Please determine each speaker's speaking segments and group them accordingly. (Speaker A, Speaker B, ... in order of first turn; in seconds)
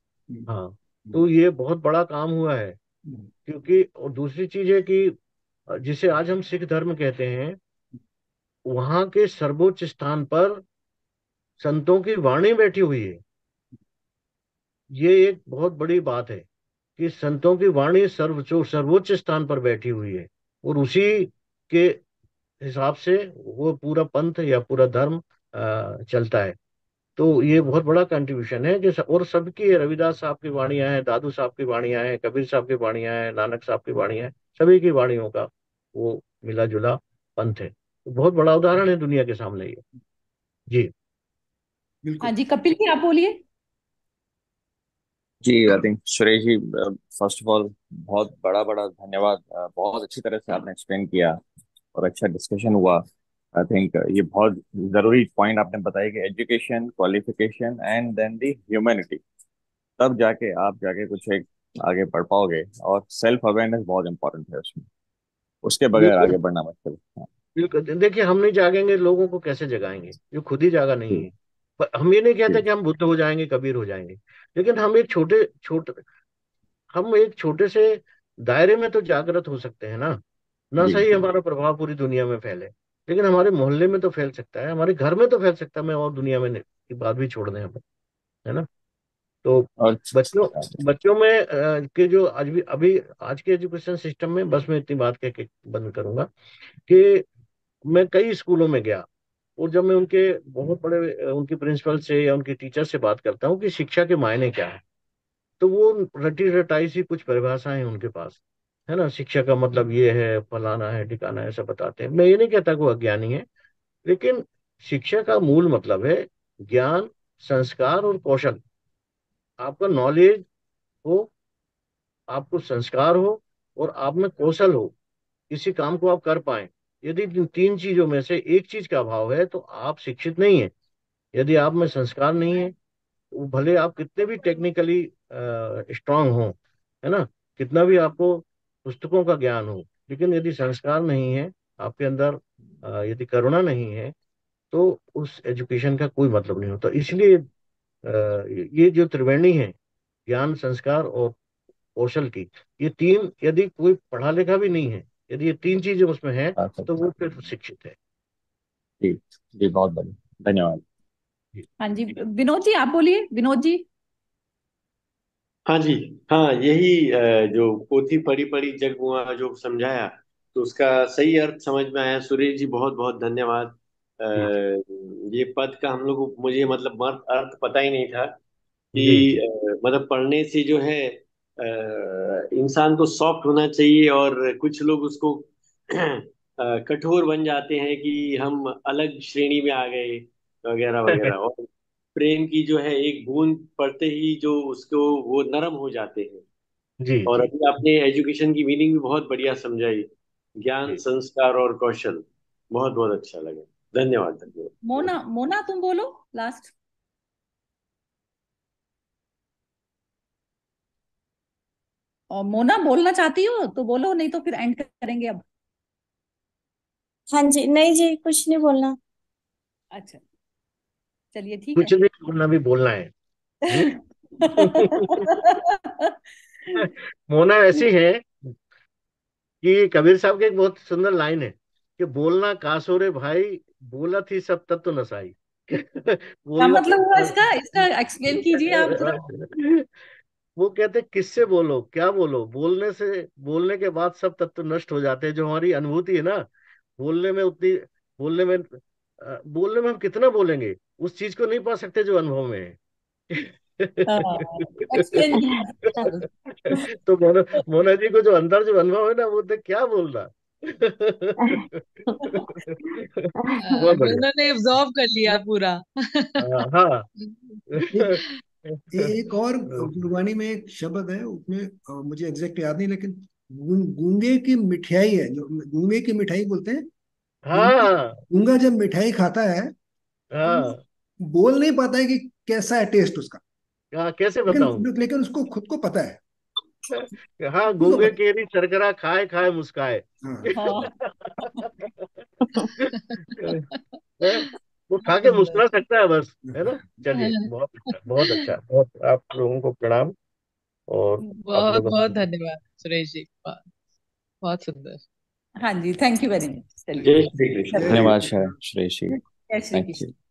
Speaker A: 0.5-2.8, 3.5-5.2, 5.7-7.6, 8.7-10.6, 11.6-13.2, 14.9-16.4, 17.0-22.0, 22.6-26.6, 27.2-39.8, 66.0-66.3, 67.6-76.0, 76.9-80.2, 80.7-87.8, 89.4-96.3, 96.8-97.2, 97.9-99.1, 99.6-104.8, 105.6-113.5, 114.1-118.6, 119.6-120.4, 121.0-121.3, 122.3-124.9, 125.5-130.7, 131.3-132.8, 133.3-144.1, 144.7-147.4, 148.0-149.8, 150.3-151.3, 152.0-158.0, 179.0-179.3, 191.1-191.3, 197.0-197.5, 221.8-223.1, 223.7-225.3, 226.7-228.5, 229.6-239.9, 240.6-252.8, 253.3-255.9, 256.5-264.2, 266.4-267.1, 267.7-269.1, 269.7-270.1, 277.5-278.2, 280.3-280.8, 283.9-284.9, 286.9-293.7, 294.2-300.1, 300.9-302.2
Speaker B: 42.0-42.3, 268.9-276.9, 277.5-279.7, 281.2-283.4, 284.5-286.2, 287.8-288.1, 290.2-290.5, 296.5-296.8, 307.8-308.5
Speaker C: 42.2-43.4, 161.8-163.8, 204.8-206.7, 212.3-215.4, 219.9-220.2, 221.3-221.9, 223.7-226.8, 236.6-239.2, 254.1-256.2, 290.5-291.7, 305.6-307.2, 307.7-308.0, 309.1-310.0
Speaker D: 45.4-51.4, 51.9-59.2, 60.0-64.9, 65.6-67.3, 80.8-81.2, 89.8-90.8, 156.6-157.0, 159.0-160.8, 307.8-309.2, 309.7-310.1
Speaker E: 165.7-178.4, 178.9-196.4, 197.2-200.1, 200.6-204.8, 307.0-308.2
Speaker F: 217.3-219.0, 263.4-263.7
Speaker G: 263.6-266.5, 267.2-268.2, 293.0-293.4, 295.2-295.5, 297.1-297.4, 301.4-303.7, 304.4-305.0